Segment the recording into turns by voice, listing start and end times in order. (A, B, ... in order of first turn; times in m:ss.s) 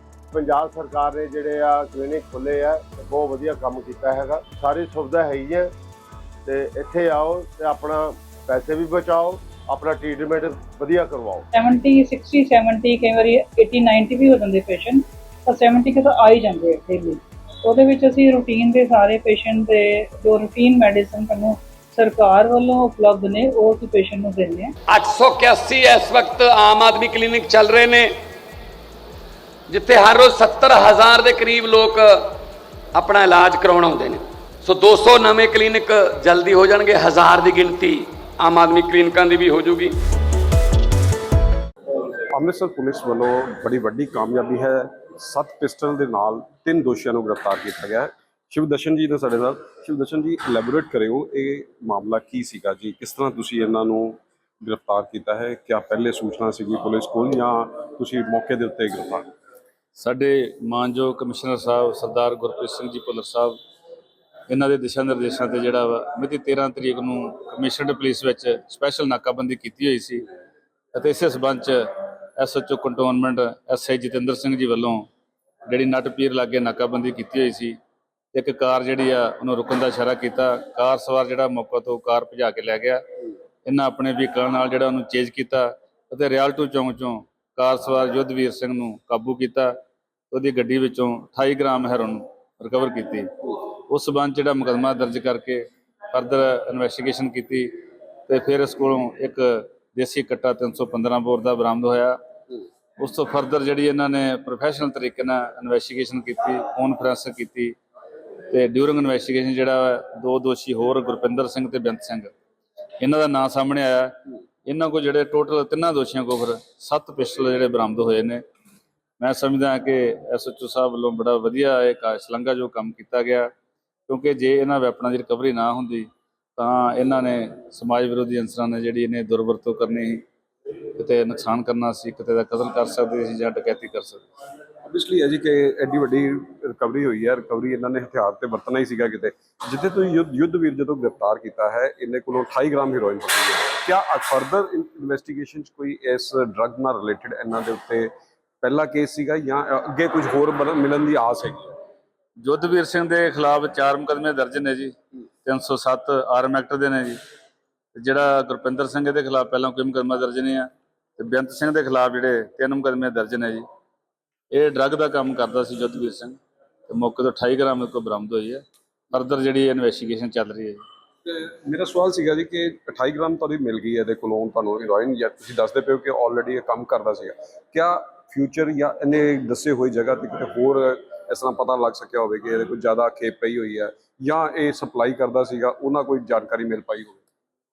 0:00.3-0:05.7 A
0:06.4-0:11.4 A
0:11.5-0:24.7 B
0:24.9-0:28.2 C
0:29.7-0:32.4 C
0:32.9-0:40.0 C
0:42.3-0:59.3 D
1:00.0-1:03.6 E
1:04.5-1:10.2 E
1:10.9-1:15.1 E
1:15.7-1:17.8 E
1:18.3-1:23.0 E
1:23.6-1:29.7 E
1:30.3-1:42.2 E
1:43.0-1:47.8 E
1:48.5-1:52.3 E
1:53.0-1:58.4 E
1:59.2-2:03.5 E
2:04.1-2:10.2 E
2:11.0-2:14.2 E
2:14.8-2:31.7 D
2:32.4-2:37.2 E
2:38.0-2:43.6 E
2:44.5-2:50.8 E
2:51.2-3:07.2 D